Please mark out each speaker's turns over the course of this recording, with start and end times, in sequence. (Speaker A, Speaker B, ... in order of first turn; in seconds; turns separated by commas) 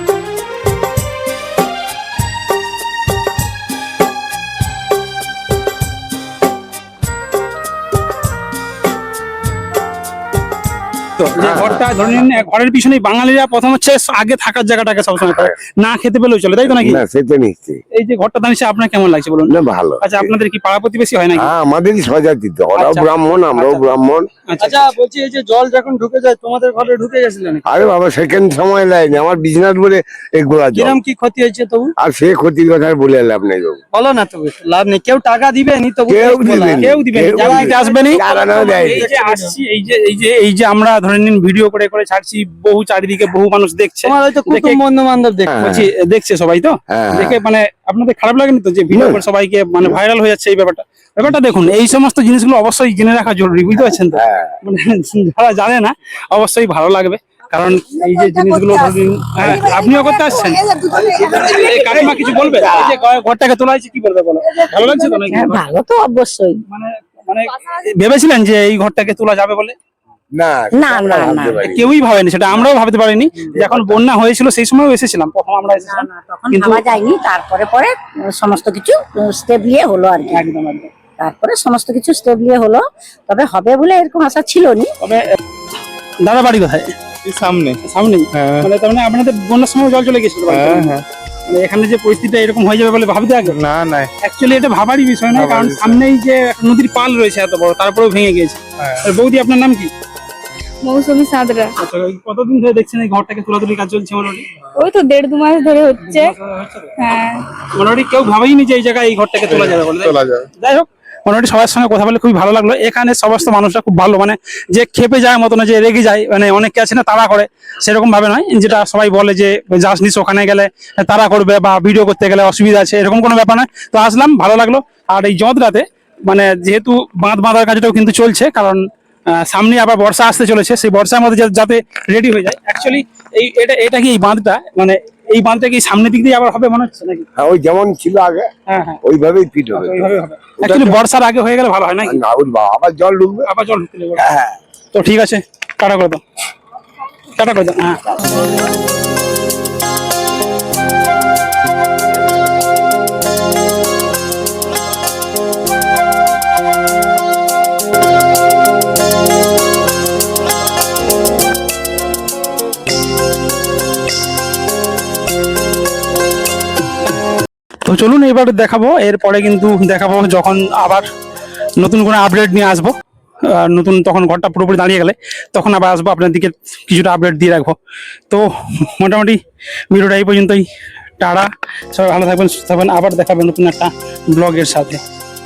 Speaker A: 11.2-17.0, Speaker B: 11.4-11.8, Speaker B: 16.7-17.8, Speaker A: 17.9-21.5, Speaker B: 19.5-20.3, Speaker B: 21.4-24.3, Speaker A: 22.8-23.8, Speaker A: 24.5-24.9, Speaker C: 24.6-27.7, Speaker B: 27.7-31.0, Speaker C: 30.8-31.9, Speaker B: 32.0-33.8, Speaker C: 33.9-39.6, Speaker B: 36.1-39.1, Speaker A: 36.8-44.8, Speaker C: 44.0-45.6, Speaker B: 45.5-45.9, Speaker A: 45.6-65.7, Speaker B: 46.9-47.4, Speaker B: 48.9-49.2, Speaker B: 54.2-54.5, Speaker D: 58.1-58.9, Speaker D: 59.4-61.1, Speaker D: 64.8-66.6, Speaker A: 66.7-69.8, Speaker B: 70.3-71.9, Speaker D: 70.7-71.7, Speaker A: 71.6-76.9, Speaker B: 73.4-74.0, Speaker D: 75.8-80.4, Speaker A: 80.3-80.9, Speaker D: 81.2-84.9, Speaker A: 86.2-86.9, Speaker E: 87.2-87.8, Speaker A: 87.8-93.6, Speaker E: 88.3-88.7, Speaker E: 90.5-91.0, Speaker E: 93.5-94.1, Speaker A: 94.2-99.9, Speaker E: 95.3-96.0, Speaker F: 100.8-101.8, Speaker A: 101.8-104.6, Speaker F: 104.8-106.3, Speaker A: 106.0-107.0, Speaker F: 107.0-107.4, Speaker A: 107.6-128.8, Speaker E: 109.5-110.5, Speaker A: 129.3-137.3, Speaker B: 137.4-138.5, Speaker A: 138.7-139.0, Speaker B: 139.0-141.0, Speaker A: 139.8-142.2, Speaker B: 142.1-143.5, Speaker A: 143.5-144.2, Speaker B: 144.2-144.6, Speaker A: 144.9-146.2, Speaker A: 147.4-148.2, Speaker A: 167.9-171.1, Speaker A: 171.8-172.9, Speaker A: 173.5-177.8, Speaker A: 178.3-179.4, Speaker A: 179.9-180.7, Speaker A: 181.2-185.0